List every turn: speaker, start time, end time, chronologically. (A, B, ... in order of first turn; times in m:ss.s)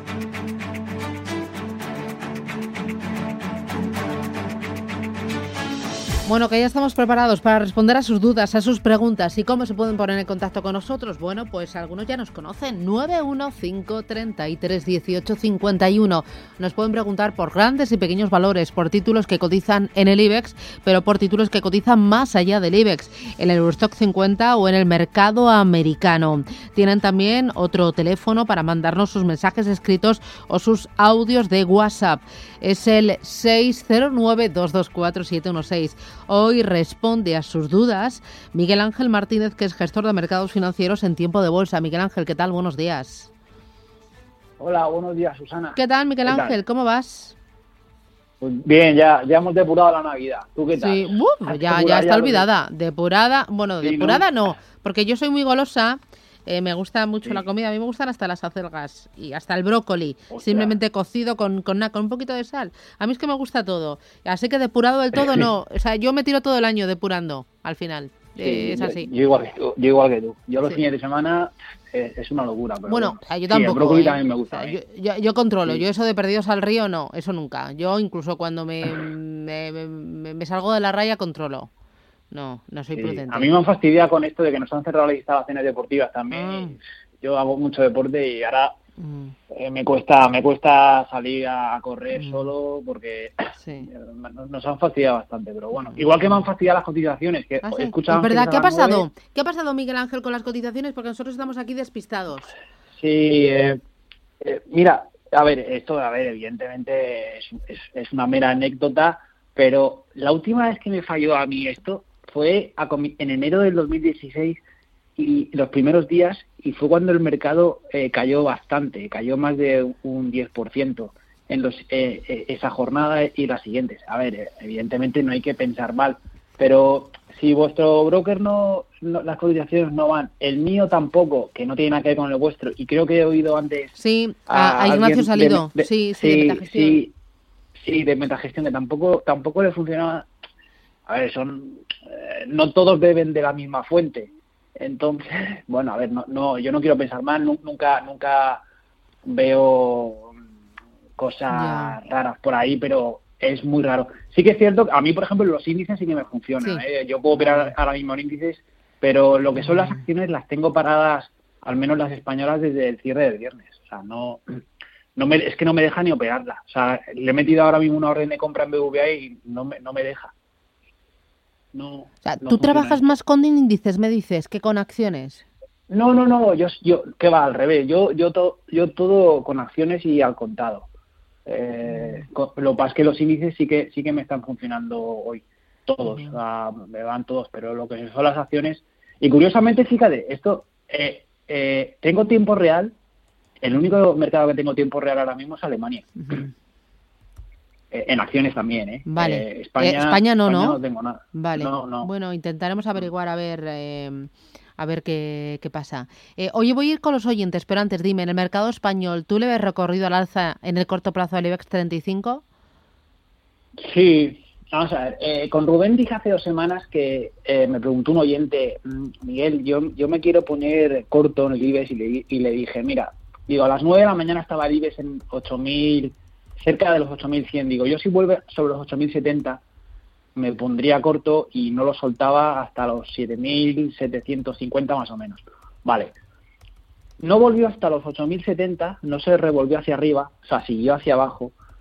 0:06.3-0:43.3 A
0:44.6-0:46.6 B
0:45.8-0:47.4 A
0:48.4-0:52.5 B
0:50.7-1:09.1 A
0:53.8-0:54.3 B
1:00.3-1:00.7 B
1:08.4-1:14.8 B
1:12.9-1:21.7 A
1:22.3-1:23.5 A
1:22.9-1:28.7 B
1:26.3-1:26.8 A
1:29.0-1:29.3 A
1:29.5-1:39.0 B
1:32.2-1:32.5 A
1:33.6-1:33.9 A
1:35.8-1:36.3 A
1:37.6-1:42.5 A
1:43.0-1:43.8 B
1:44.4-1:54.6 B
1:55.2-2:13.9 B
2:14.0-2:17.0 A
2:14.5-2:17.1 B
2:17.8-2:20.3 B
2:21.1-2:28.6 B
2:29.3-2:30.3 B
2:31.2-2:44.4 B
2:31.5-2:32.0 A
2:36.6-2:37.7 A
2:39.7-2:40.0 A
2:45.2-2:50.3 B
2:51.7-2:53.0 B
2:52.2-2:55.4 A
2:55.9-3:00.9 B
3:01.5-3:13.0 B
3:06.1-3:06.4 A
3:13.6-3:16.1 B
3:16.2-3:16.5 A
3:17.9-3:22.1 B
3:19.1-3:20.8 A
3:21.4-3:32.4 A
3:33.8-3:49.6 B
3:50.4-3:56.2 B
3:57.2-4:01.5 B